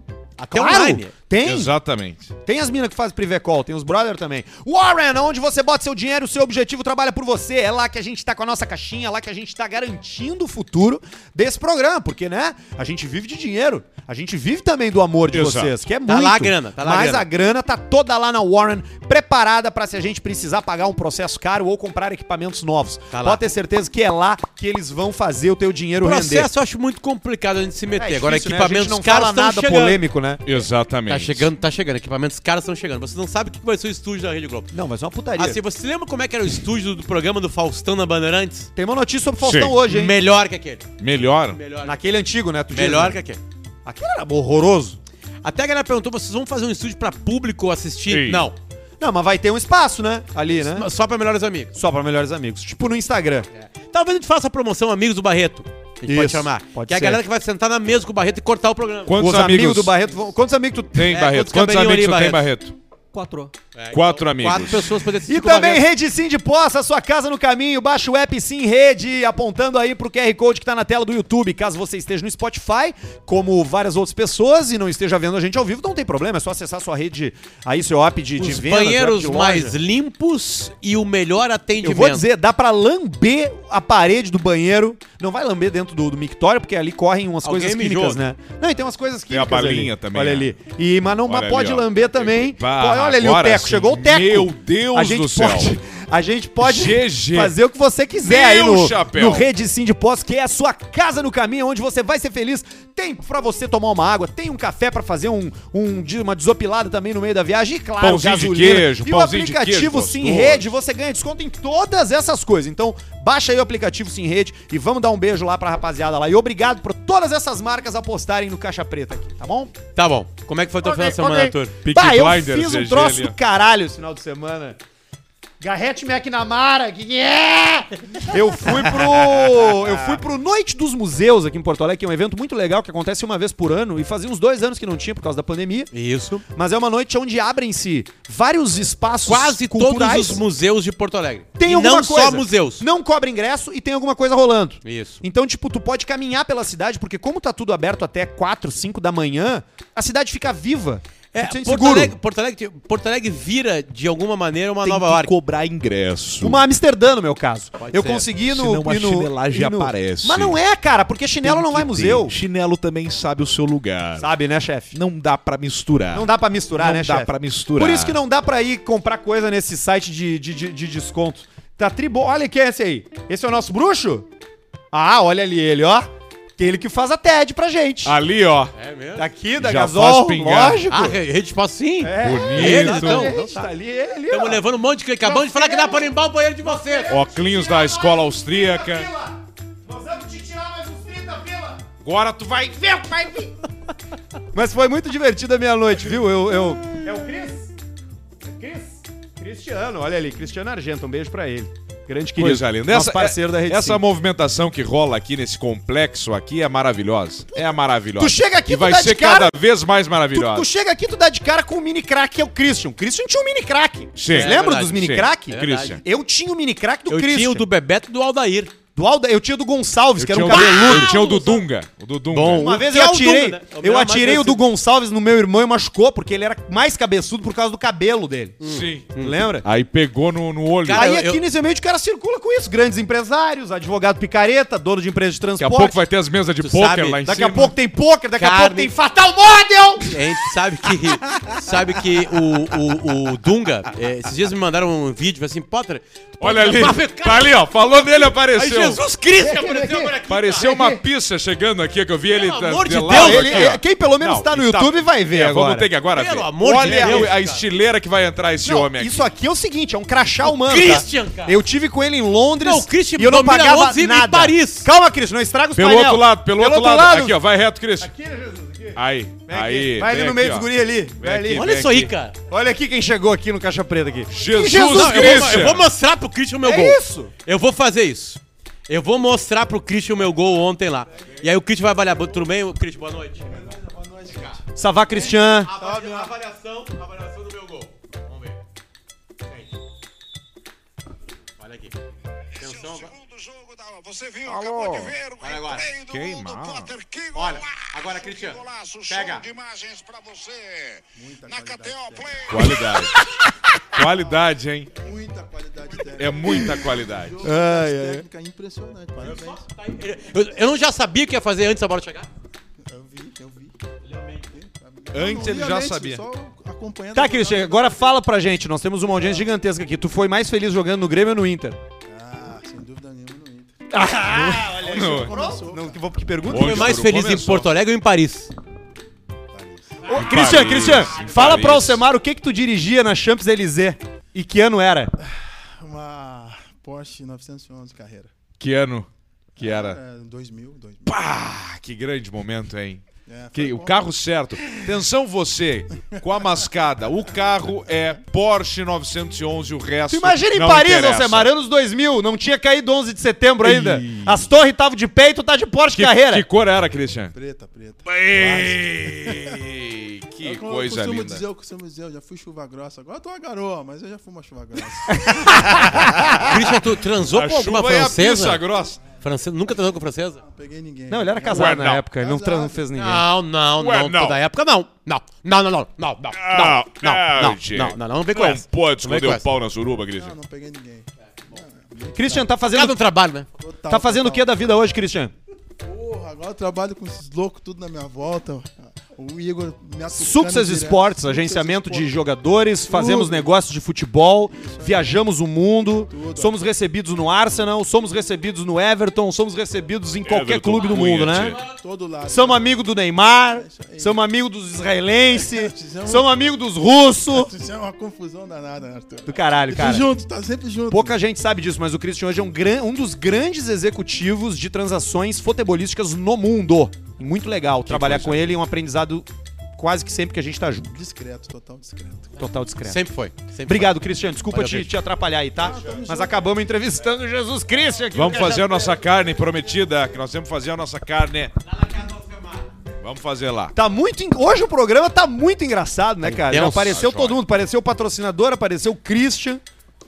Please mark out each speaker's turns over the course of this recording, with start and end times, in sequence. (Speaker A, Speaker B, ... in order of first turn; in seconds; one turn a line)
Speaker A: 0.4-1.7
Speaker B: 0.5-1.1
Speaker C: 1.4-2.3
Speaker A: 2.5-26.5
Speaker C: 15.3-15.7
Speaker B: 16.1-17.3
Speaker B: 23.1-23.4
Speaker B: 26.0-30.0
Speaker A: 28.0-30.4
Speaker C: 30.4-31.5
Speaker B: 31.1-34.7
Speaker A: 34.7-35.6
Speaker B: 35.4-38.7
Speaker A: 38.8-40.2
Speaker C: 39.4-39.8
Speaker B: 39.9-40.9
Speaker C: 41.0-41.6
Speaker B: 41.5-42.1
Speaker A: 41.8-43.2
Speaker B: 42.7-43.4
Speaker A: 43.9-45.0
Speaker B: 45.4-48.6
Speaker C: 48.1-48.5
Speaker A: 49.0-50.9
Speaker B: 50.6-51.7
Speaker A: 51.7-53.5
Speaker B: 53.5-59.4
Speaker A: 56.1-57.2
Speaker C: 59.1-59.9
Speaker A: 59.2-61.1
Speaker C: 61.0-62.8
Speaker B: 61.1-62.5
Speaker A: 63.1-63.5
Speaker B: 63.7-65.8
Speaker C: 63.9-65.0
Speaker A: 65.3-79.8
Speaker B: 78.4-82.3
Speaker A: 81.8-119.8
Speaker B: 87.4-88.2
Speaker C: 89.3-90.5
Speaker C: 91.3-95.7
Speaker C: 96.6-97.6
Speaker C: 98.2-99.5
Speaker C: 108.0-110.7
Speaker B: 120.0-121.8
Speaker A: 120.8-124.8
Speaker C: 121.8-123.3
Speaker A: 125.6-135.9
Speaker C: 129.2-129.7
Speaker B: 135.9-136.4
Speaker A: 136.5-140.4
Speaker B: 139.2-142.9
Speaker A: 141.6-152.2
Speaker B: 144.8-145.2
Speaker B: 151.3-155.3
Speaker C: 154.8-156.6
Speaker A: 156.4-162.4
Speaker B: 157.8-158.3
Speaker C: 158.5-160.6
Speaker C: 161.4-164.3
Speaker A: 164.2-165.0
Speaker C: 164.9-168.2
Speaker A: 166.1-174.3
Speaker A: 174.9-178.2
Speaker C: 178.0-178.7
Speaker B: 178.8-179.3
Speaker A: 179.2-181.2
Speaker C: 179.6-180.8
Speaker B: 180.9-183.6
Speaker A: 182.0-184.6
Speaker C: 182.2-183.4
Speaker B: 184.3-187.2
Speaker A: 185.2-191.8
Speaker C: 187.1-189.1
Speaker C: 192.0-193.4
Speaker A: 194.5-197.7
Speaker A: 198.4-204.0
Speaker C: 202.4-210.7
Speaker A: 208.2-209.6
Speaker A: 210.3-217.7
Speaker C: 214.2-216.0
Speaker B: 214.3-216.0
Speaker B: 217.1-218.7
Speaker A: 219.0-221.2
Speaker C: 220.2-222.8
Speaker B: 220.5-221.6
Speaker B: 222.3-224.6
Speaker A: 222.6-228.6
Speaker B: 228.6-229.4
Speaker C: 228.7-229.1
Speaker A: 229.2-229.7
Speaker C: 229.6-231.1
Speaker B: 230.8-231.4
Speaker A: 230.9-236.0
Speaker C: 235.6-237.7
Speaker B: 236.6-237.2
Speaker A: 237.3-240.2
Speaker B: 238.4-238.9
Speaker B: 240.1-247.6
Speaker C: 246.4-249.0
Speaker B: 248.5-250.8
Speaker A: 249.5-250.1
Speaker C: 250.3-259.3
Speaker A: 250.7-251.0
Speaker B: 252.3-253.7
Speaker A: 253.1-255.9
Speaker B: 256.1-257.7
Speaker A: 256.8-257.4
Speaker A: 258.6-267.4
Speaker B: 260.4-261.6
Speaker B: 262.6-264.9
Speaker C: 265.8-268.1
Speaker A: 268.0-271.7
Speaker C: 269.0-272.1
Speaker B: 271.5-272.4
Speaker A: 272.5-275.7
Speaker C: 274.3-275.9
Speaker B: 274.8-283.6
Speaker A: 276.6-277.3
Speaker D: 282.1-282.3
Speaker D: 283.4-284.6
Speaker B: 284.3-284.6
Speaker A: 284.8-285.7
Speaker B: 285.1-288.6
Speaker D: 285.8-286.3
Speaker B: 291.6-291.9
Speaker B: 292.6-293.1
Speaker E: 292.6-302.5
Speaker C: 294.5-295.2
Speaker B: 295.4-295.9
Speaker C: 296.1-296.9
Speaker B: 297.3-299.4
Speaker D: 301.2-302.8
Speaker C: 302.5-303.2
Speaker C: 303.9-304.9
Speaker D: 304.9-309.7
Speaker C: 306.2-307.4
Speaker A: 307.4-308.3
Speaker B: 309.2-312.3
Speaker D: 312.8-313.8
Speaker B: 314.1-314.4
Speaker D: 314.4-318.0
Speaker C: 315.1-316.2
Speaker A: 317.1-321.8
Speaker D: 319.2-319.4
Speaker D: 322.1-323.7
Speaker A: 323.9-326.9
Speaker C: 324.3-325.4
Speaker D: 324.4-326.0
Speaker C: 326.5-327.7
Speaker B: 326.5-328.5
Speaker D: 329.5-330.2
Speaker A: 330.1-335.1
Speaker B: 330.1-331.6
Speaker C: 330.1-332.0
Speaker D: 335.2-338.3
Speaker C: 338.6-339.1
Speaker C: 339.6-340.0
Speaker D: 339.6-341.1
Speaker C: 341.1-351.5
Speaker D: 343.3-344.0
Speaker A: 350.1-356.5
Speaker C: 353.6-354.4
Speaker C: 355.9-357.4
Speaker D: 357.3-359.6
Speaker C: 358.1-361.4
Speaker D: 360.4-366.5
Speaker A: 365.9-366.3
Speaker B: 366.4-368.6
Speaker C: 367.3-369.0
Speaker B: 369.2-370.4
Speaker D: 370.4-372.8
Speaker A: 371.1-373.3
Speaker C: 371.5-372.0
Speaker B: 373.0-379.4
Speaker C: 373.8-374.4
Speaker C: 376.3-380.4
Speaker D: 380.2-382.5
Speaker A: 382.1-383.0
Speaker B: 382.7-383.5
Speaker D: 383.6-384.5
Speaker A: 383.9-385.3
Speaker D: 385.8-392.2
Speaker A: 390.1-401.6
Speaker D: 392.8-393.5
Speaker D: 394.5-395.2
Speaker D: 396.1-396.6
Speaker C: 400.2-401.6
Speaker D: 401.7-402.7
Speaker A: 402.3-407.5
Speaker D: 403.5-404.2
Speaker D: 405.4-406.3
Speaker D: 407.3-411.2
Speaker A: 409.3-410.1
Speaker A: 410.9-421.0
Speaker C: 417.9-418.5
Speaker D: 420.9-422.4
Speaker A: 422.4-423.0
Speaker B: 422.8-424.9
Speaker A: 423.7-428.9
Speaker D: 425.6-426.6
Speaker C: 428.1-431.5
Speaker B: 431.6-432.7
Speaker C: 433.0-433.8
Speaker A: 433.8-439.6
Speaker B: 436.2-437.0
Speaker C: 436.6-437.4